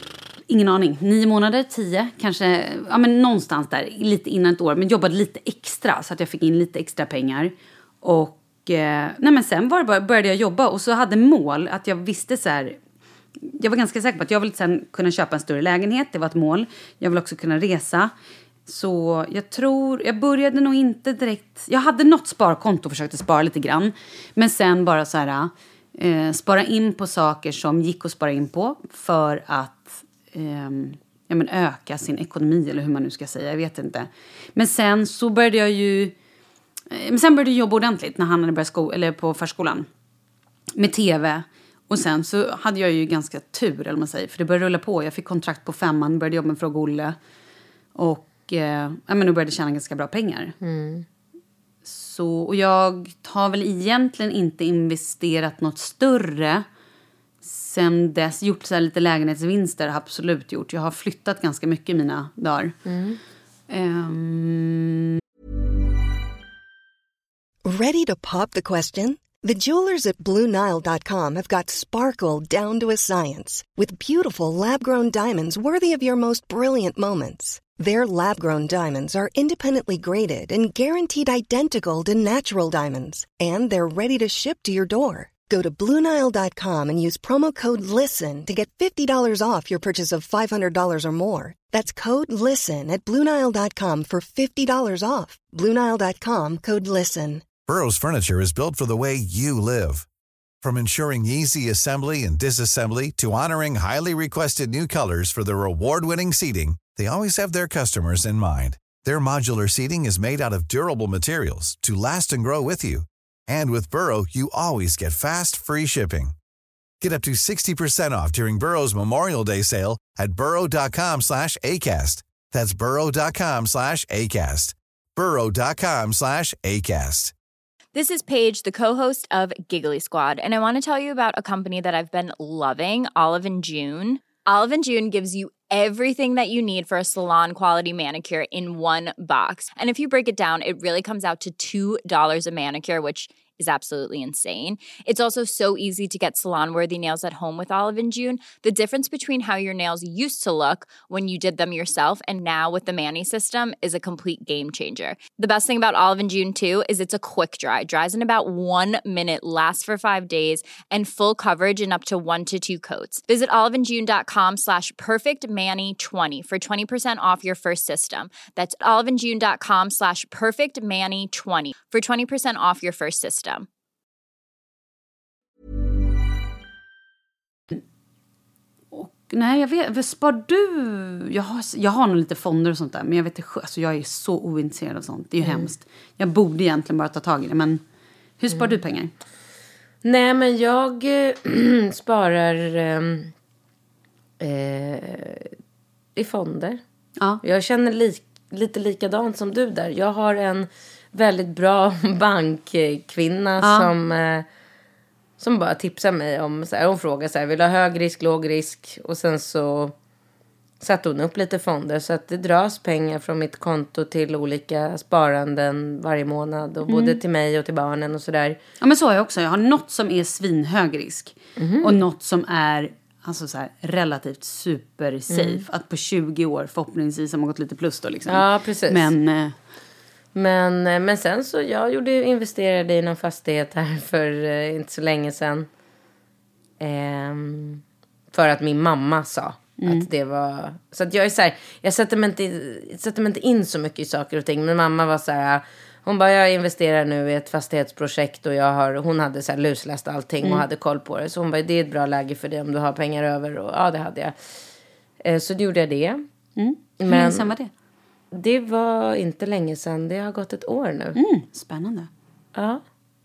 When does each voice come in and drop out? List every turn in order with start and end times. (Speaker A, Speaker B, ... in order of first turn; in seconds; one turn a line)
Speaker A: 0.5-12.8
Speaker A: 13.4-18.1
Speaker A: 18.7-36.1
Speaker A: 36.9-39.9
Speaker A: 40.8-47.2
Speaker A: 48.0-50.6
Speaker B: 50.6-51.0
Speaker A: 51.9-56.6
Speaker A: 57.4-62.8
Speaker B: 62.9-63.2
Speaker A: 63.7-65.1
Speaker C: 67.7-97.5
Speaker D: 97.7-100.1
Speaker D: 100.6-116.3
Speaker D: 117.0-127.3
Speaker E: 127.9-173.7
Speaker A: 178.9-187.8
Speaker A: 188.4-189.1
Speaker B: 190.0-193.3
Speaker B: 194.4-195.5
Speaker B: 196.2-196.8
Speaker B: 197.4-204.5
Speaker A: 203.6-203.9
Speaker B: 205.4-209.9
Speaker B: 210.8-218.6
Speaker A: 216.9-217.2
Speaker A: 218.8-229.6
Speaker B: 221.6-222.0
Speaker B: 225.3-225.6
Speaker B: 228.3-229.1
Speaker B: 230.3-235.7
Speaker B: 236.8-237.8
Speaker B: 238.3-254.3
Speaker A: 239.8-240.1
Speaker B: 255.2-256.2
Speaker A: 256.6-257.7
Speaker B: 257.0-257.5
Speaker B: 258.3-261.2
Speaker A: 261.1-262.1
Speaker B: 262.6-262.8